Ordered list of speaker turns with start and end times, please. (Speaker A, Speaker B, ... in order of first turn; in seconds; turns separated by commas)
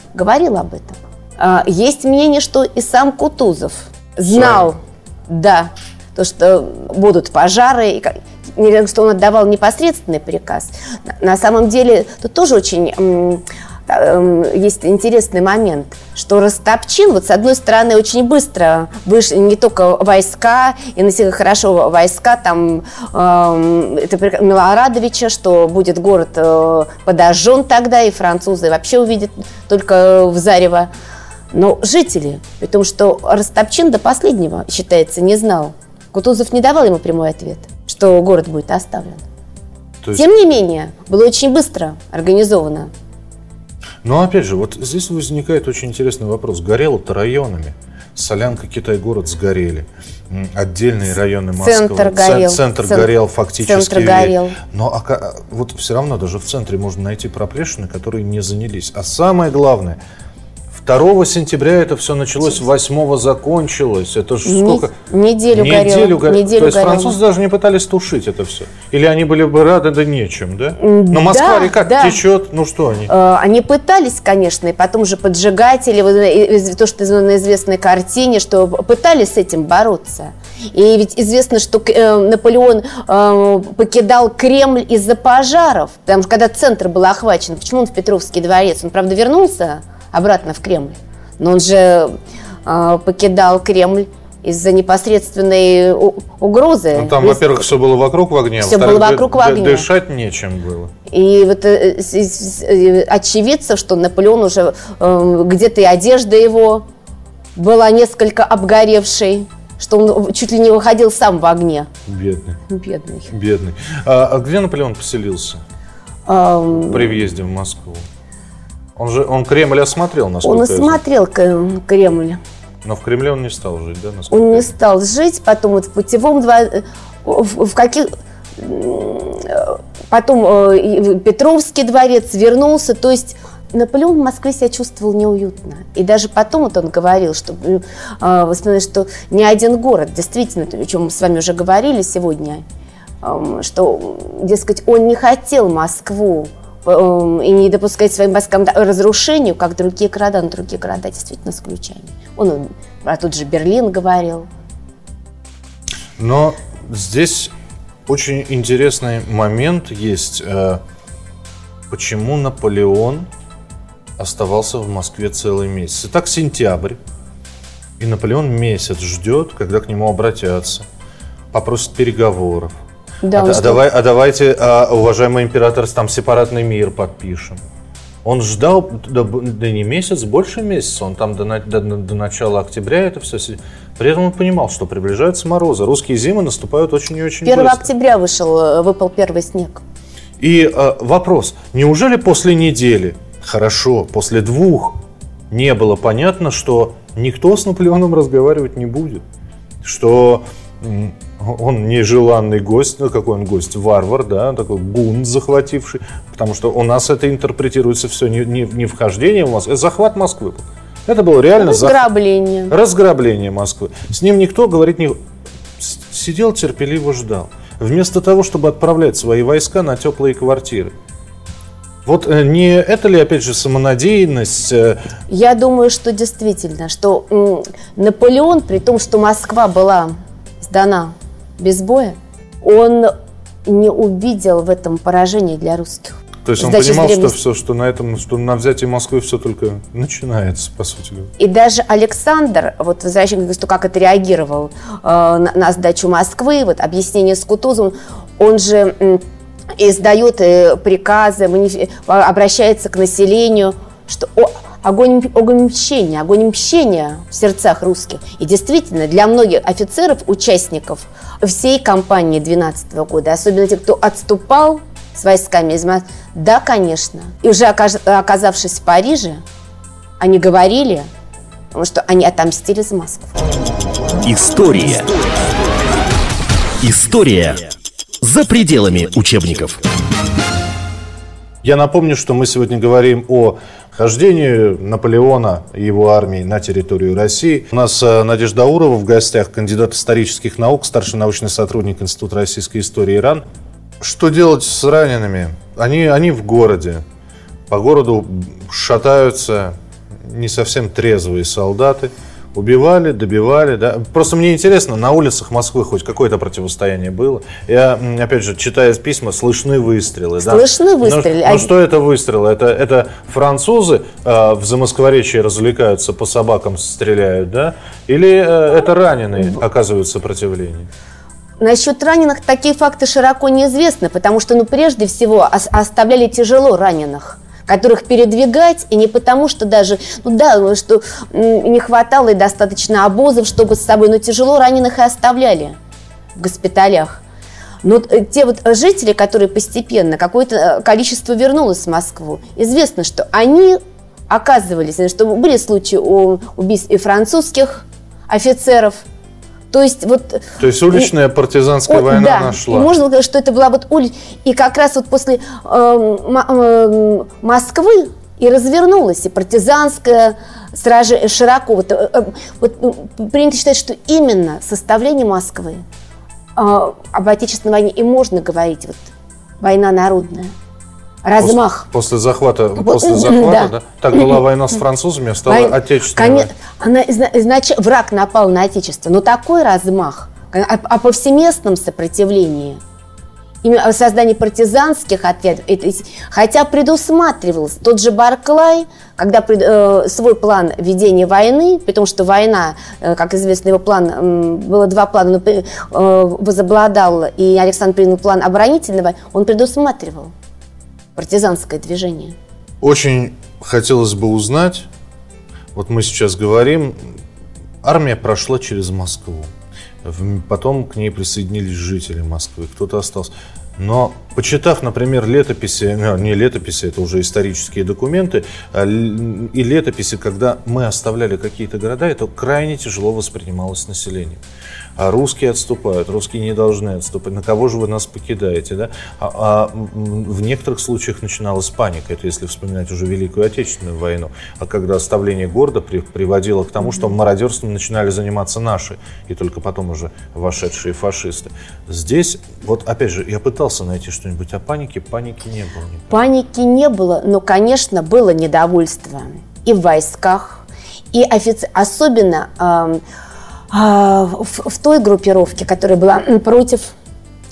Speaker A: 0.1-30.9, Speaker B: 4.3-4.7, Speaker A: 31.5-39.2, Speaker A: 40.1-42.9, Speaker B: 44.0-60.0, Speaker A: 51.6-54.6, Speaker B: 60.7-64.9, Speaker A: 64.4-67.2, Speaker B: 65.5-73.1, Speaker A: 70.8-72.2, Speaker A: 73.0-97.7, Speaker B: 96.9-100.9, Speaker A: 98.6-99.9, Speaker A: 101.1-106.8, Speaker A: 107.5-111.9, Speaker B: 112.0-112.6, Speaker A: 112.7-113.3, Speaker B: 113.3-115.6, Speaker A: 116.3-117.1, Speaker B: 116.8-118.0, Speaker B: 119.0-121.0, Speaker A: 120.4-122.4, Speaker B: 122.8-124.7, Speaker A: 124.3-142.6, Speaker A: 143.2-154.5, Speaker B: 156.2-157.5, Speaker B: 158.1-160.8, Speaker B: 161.9-163.3, Speaker B: 164.2-167.0, Speaker B: 168.0-170.8, Speaker B: 171.5-172.7, Speaker A: 173.2-173.8, Speaker B: 173.3-177.6, Speaker B: 178.2-187.9, Speaker A: 187.4-189.8, Speaker B: 190.4-194.9, Speaker B: 195.5-199.2, Speaker B: 199.8-212.0, Speaker A: 211.6-212.7, Speaker B: 212.7-215.2, Speaker B: 215.8-220.9, Speaker B: 222.0-225.1, Speaker A: 225.3-233.1, Speaker A: 233.6-237.3, Speaker B: 236.4-241.3, Speaker A: 241.4-249.2, Speaker A: 249.8-269.4, Speaker A: 270.2-271.1, Speaker A: 271.7-273.5, Speaker C: 274.2-275.3, Speaker C: 276.8-277.7, Speaker C: 278.2-279.8, Speaker B: 281.6-293.4, Speaker B: 294.0-297.0, Speaker B: 297.7-320.9, Speaker A: 310.4-311.7, Speaker A: 321.6-335.8, Speaker A: 336.4-337.2, Speaker A: 337.8-349.0, Speaker A: 349.7-351.1, Speaker B: 350.6-352.9, Speaker A: 351.9-365.8, Speaker A: 366.6-369.1, Speaker A: 369.6-370.5, Speaker A: 371.2-371.9, Speaker B: 371.4-376.5, Speaker A: 372.8-374.4, Speaker A: 375.5-382.8, Speaker A: 383.6-400.3, Speaker A: 401.1-402.4, Speaker B: 402.8-404.9, Speaker B: 405.7-407.1, Speaker B: 407.8-409.5, Speaker B: 410.0-424.4, Speaker B: 425.0-446.2, Speaker A: 446.1-453.0, Speaker A: 453.7-456.9